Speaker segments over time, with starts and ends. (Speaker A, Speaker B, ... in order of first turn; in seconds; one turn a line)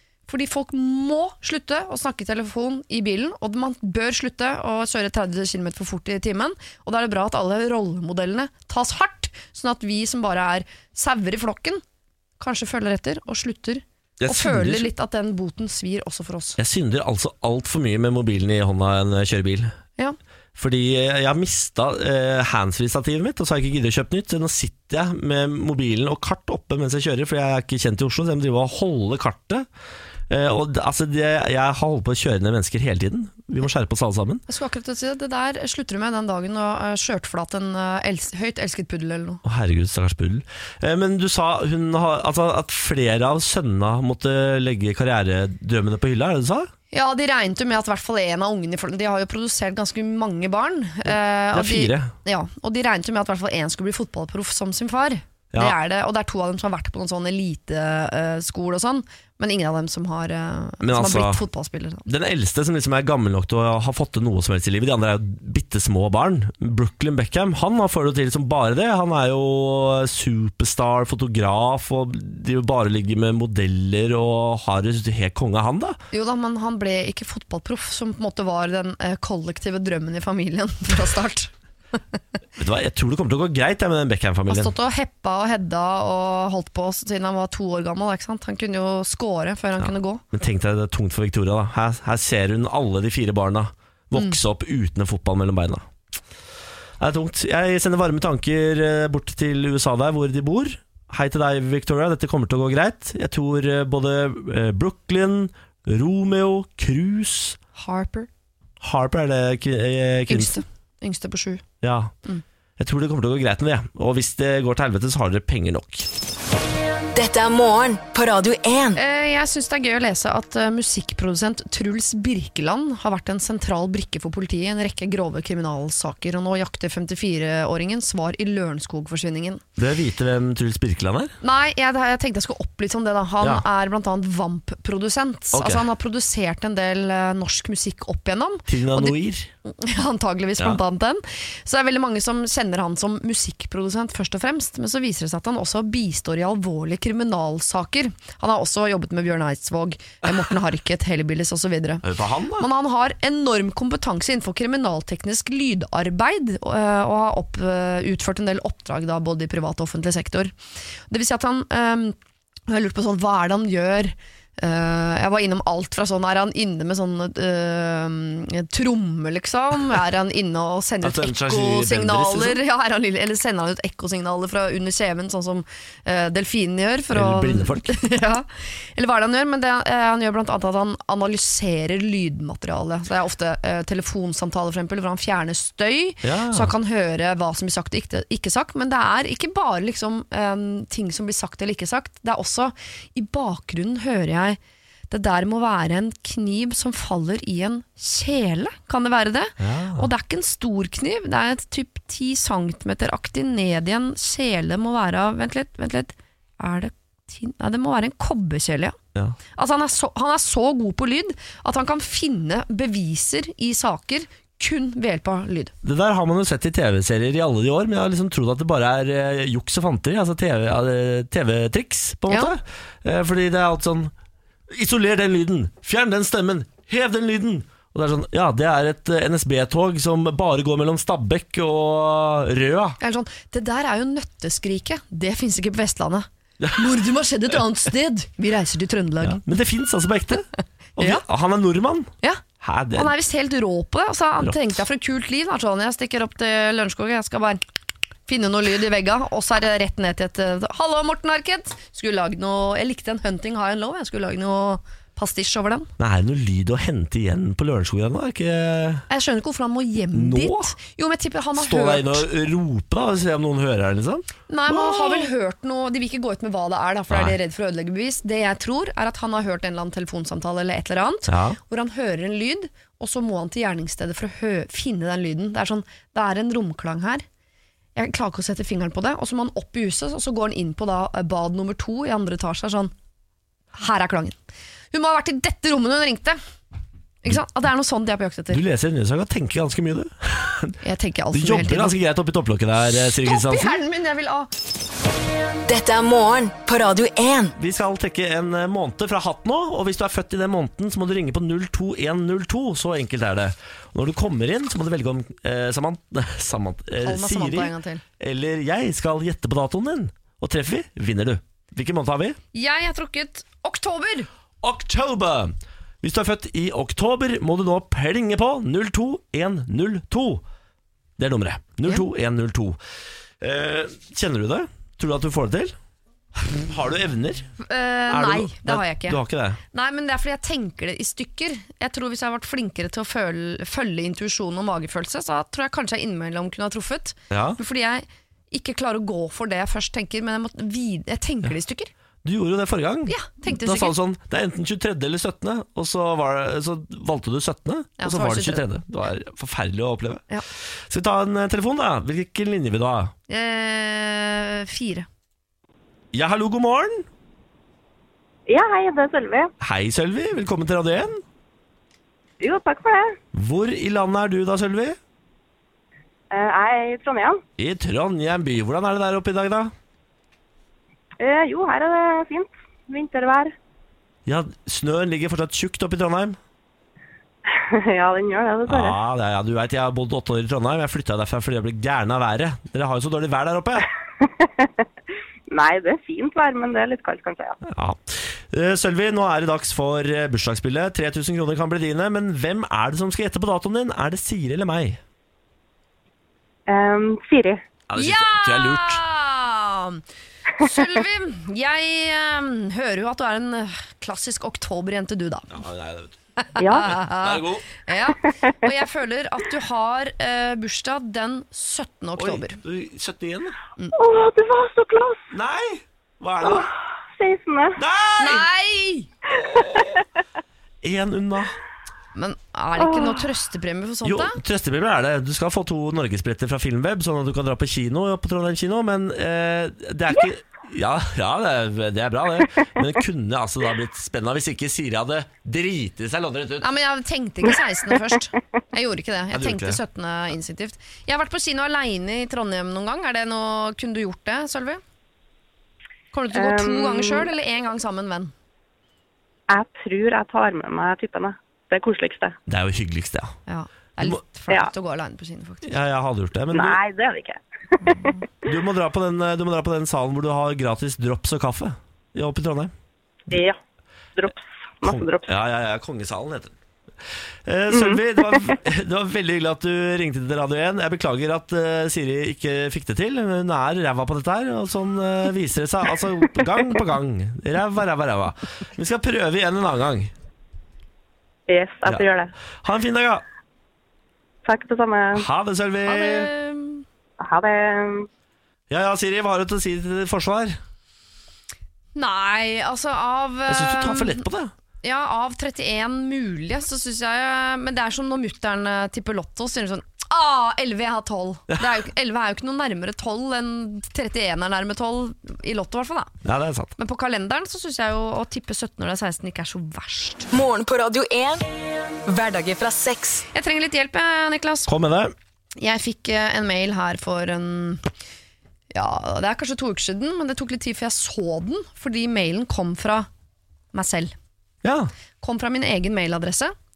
Speaker A: 0.3-11.8
Speaker A: 12.4-16.6
Speaker B: 14.2-14.9
Speaker B: 16.6-19.8
Speaker B: 20.6-29.7
Speaker B: 30.3-34.4
Speaker A: 34.5-39.4
Speaker B: 39.4-46.7
Speaker A: 46.9-62.1
Speaker B: 51.1-52.1
Speaker B: 60.8-61.4
Speaker B: 62.1-76.0
Speaker A: 76.1-81.5
Speaker B: 82.6-84.7
Speaker A: 84.5-90.2
Speaker B: 89.8-95.9
Speaker B: 97.0-107.6
Speaker A: 107.8-108.3
Speaker B: 108.8-110.6
Speaker A: 110.3-111.6
Speaker B: 111.8-112.1
Speaker B: 112.8-116.1
Speaker C: 117.1-119.0
Speaker A: 119.0-129.6
Speaker B: 129.8-131.3
Speaker A: 131.4-160.5
Speaker B: 135.5-135.9
Speaker B: 138.7-139.5
Speaker B: 152.0-152.7
Speaker A: 161.1-162.2
Speaker A: 162.7-194.6
Speaker B: 171.0-172.6
Speaker B: 177.1-177.9
Speaker B: 186.2-186.7
Speaker A: 195.1-209.0
Speaker B: 199.6-200.1
Speaker A: 209.5-215.7
Speaker B: 215.8-224.1
Speaker B: 224.7-233.0
Speaker A: 233.0-239.4
Speaker B: 239.2-243.1
Speaker A: 241.0-241.2
Speaker A: 242.9-247.6
Speaker A: 248.3-255.9
Speaker B: 256.0-259.1
Speaker A: 259.1-262.3
Speaker B: 260.1-260.7
Speaker B: 261.6-265.2
Speaker A: 264.5-277.2
Speaker B: 267.1-267.4
Speaker B: 271.3-271.6
Speaker A: 277.9-282.9
Speaker A: 283.7-284.4
Speaker A: 284.9-286.4
Speaker A: 287.2-288.6
Speaker B: 288.5-290.8
Speaker A: 290.8-292.0
Speaker B: 291.3-293.8
Speaker A: 293.1-294.5
Speaker C: 295.7-297.6
Speaker B: 297.6-312.4
Speaker A: 307.0-308.0
Speaker A: 312.5-314.3
Speaker B: 314.6-320.4
Speaker B: 321.2-322.8
Speaker B: 323.4-325.8
Speaker B: 326.4-327.5
Speaker A: 327.6-341.9
Speaker B: 328.1-329.6
Speaker B: 337.3-337.6
Speaker B: 342.2-350.2
Speaker A: 343.1-344.0
Speaker A: 348.0-348.6
Speaker B: 350.9-353.1
Speaker A: 353.3-355.1
Speaker B: 356.1-357.1
Speaker D: 358.5-359.5
Speaker B: 359.6-361.2
Speaker D: 362.4-363.2
Speaker B: 363.3-365.0
Speaker D: 366.3-367.4
Speaker B: 367.6-369.7
Speaker D: 371.2-373.5
Speaker B: 374.3-376.4
Speaker D: 377.5-379.0
Speaker B: 378.7-383.9
Speaker D: 384.2-384.7
Speaker D: 385.5-387.6
Speaker B: 387.6-395.0
Speaker D: 396.7-397.6
Speaker B: 397.9-399.0
Speaker A: 398.0-400.0
Speaker A: 400.6-405.5
Speaker B: 405.5-406.2
Speaker A: 406.4-412.6
Speaker D: 406.6-406.9
Speaker B: 407.1-407.7
Speaker B: 412.2-413.6
Speaker D: 413.9-415.3
Speaker B: 415.3-416.7
Speaker D: 416.4-417.8
Speaker B: 417.8-418.5
Speaker A: 418.2-419.1
Speaker B: 419.4-419.9
Speaker D: 419.5-419.9
Speaker B: 420.8-421.6
Speaker A: 422.1-424.4
Speaker D: 422.8-423.2
Speaker B: 424.0-436.7
Speaker A: 436.6-444.8
Speaker B: 439.3-439.8
Speaker A: 446.1-448.3
Speaker D: 446.3-447.3
Speaker D: 449.5-452.4
Speaker B: 452.5-453.4
Speaker A: 453.5-455.7
Speaker B: 455.6-456.8
Speaker D: 456.5-458.1
Speaker A: 457.8-458.2
Speaker B: 458.4-462.7
Speaker D: 463.3-463.6
Speaker D: 464.2-465.3
Speaker B: 464.8-466.6
Speaker B: 467.4-480.1
Speaker D: 467.7-468.5
Speaker D: 481.5-482.3
Speaker B: 482.6-483.2
Speaker D: 484.4-485.2
Speaker B: 485.1-486.3
Speaker A: 485.9-486.9
Speaker D: 487.2-488.1
Speaker B: 488.7-490.6
Speaker A: 491.9-494.2
Speaker B: 493.5-494.5
Speaker A: 494.8-506.1
Speaker B: 506.2-506.7
Speaker A: 506.8-510.3
Speaker C: 510.3-511.5
Speaker C: 512.0-513.3
Speaker A: 513.3-514.7
Speaker B: 514.7-515.1
Speaker A: 515.6-517.9
Speaker A: 518.7-523.1
Speaker A: 523.7-524.1
Speaker B: 524.6-524.9
Speaker A: 525.2-526.5